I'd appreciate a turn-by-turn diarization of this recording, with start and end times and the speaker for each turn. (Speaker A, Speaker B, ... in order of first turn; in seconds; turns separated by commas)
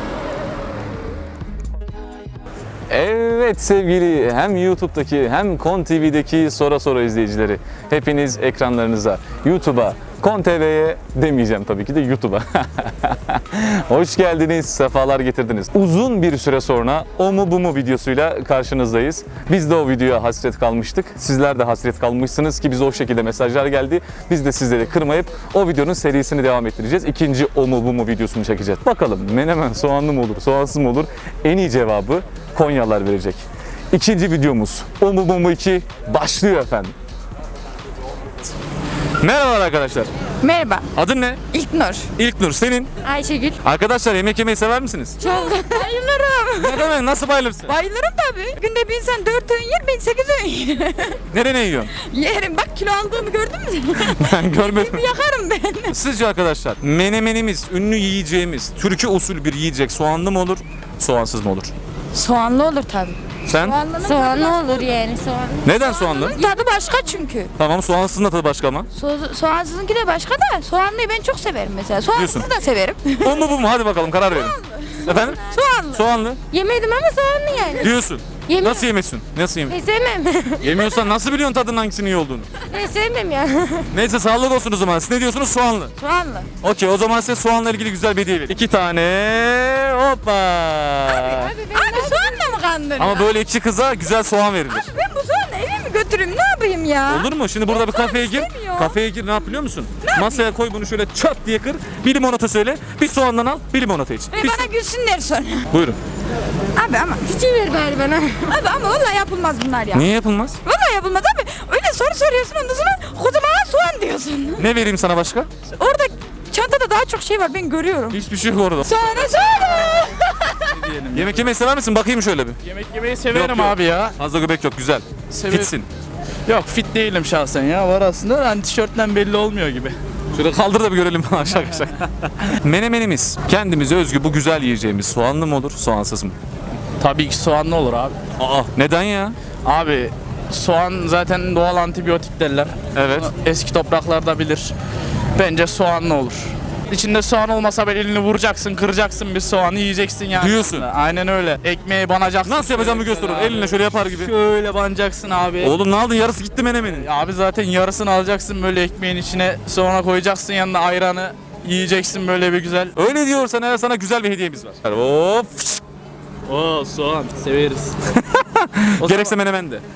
Speaker A: 2.9-33.4, Speaker A: 33.9-36.9, Speaker A: 39.2-40.1, Speaker B: 40.4-40.9, Speaker A: 41.0-41.4, Speaker B: 41.5-42.1, Speaker A: 42.2-42.9, Speaker B: 43.0-43.6, Speaker A: 43.6-45.2, Speaker B: 45.2-47.0, Speaker A: 46.6-47.7, Speaker B: 47.6-51.2, Speaker A: 51.3-51.9, Speaker B: 52.0-56.0, Speaker A: 54.1-55.1, Speaker A: 55.9-61.7, Speaker B: 62.1-67.5, Speaker A: 63.5-63.8, Speaker A: 65.6-66.4, Speaker A: 67.6-68.9, Speaker B: 68.9-73.5, Speaker A: 72.1-72.5, Speaker A: 73.2-76.4, Speaker B: 74.3-78.9, Speaker A: 77.8-79.8, Speaker B: 79.7-81.1, Speaker A: 80.6-82.5, Speaker B: 82.7-83.9, Speaker A: 83.9-85.9, Speaker B: 86.0-86.5, Speaker A: 86.6-91.6, Speaker B: 91.1-93.3, Speaker A: 93.0-94.9, Speaker B: 94.7-99.0, Speaker A: 97.1-104.7, Speaker B: 100.0-100.5, Speaker B: 104.3-105.7, Speaker A: 105.7-106.0, Speaker B: 106.8-110.1, Speaker A: 109.9-110.6, Speaker B: 110.7-114.7, Speaker A: 114.6-115.5, Speaker B: 115.7-118.2, Speaker A: 118.1-119.0, Speaker B: 118.8-120.2, Speaker C: 120.7-121.5, Speaker A: 121.1-122.6, Speaker C: 122.7-124.2, Speaker A: 123.3-125.9, Speaker C: 125.3-125.7, Speaker C: 126.5-130.0, Speaker A: 130.3-136.3, Speaker C: 137.0-138.2, Speaker A: 138.4-139.4, Speaker C: 139.7-144.7, Speaker A: 142.9-143.3, Speaker C: 145.4-155.8, Speaker A: 150.3-150.9, Speaker A: 152.4-154.3, Speaker A: 155.6-157.1, Speaker C: 156.9-162.9, Speaker A: 162.9-165.8, Speaker C: 166.5-168.0, Speaker A: 168.2-169.8, Speaker C: 169.0-169.3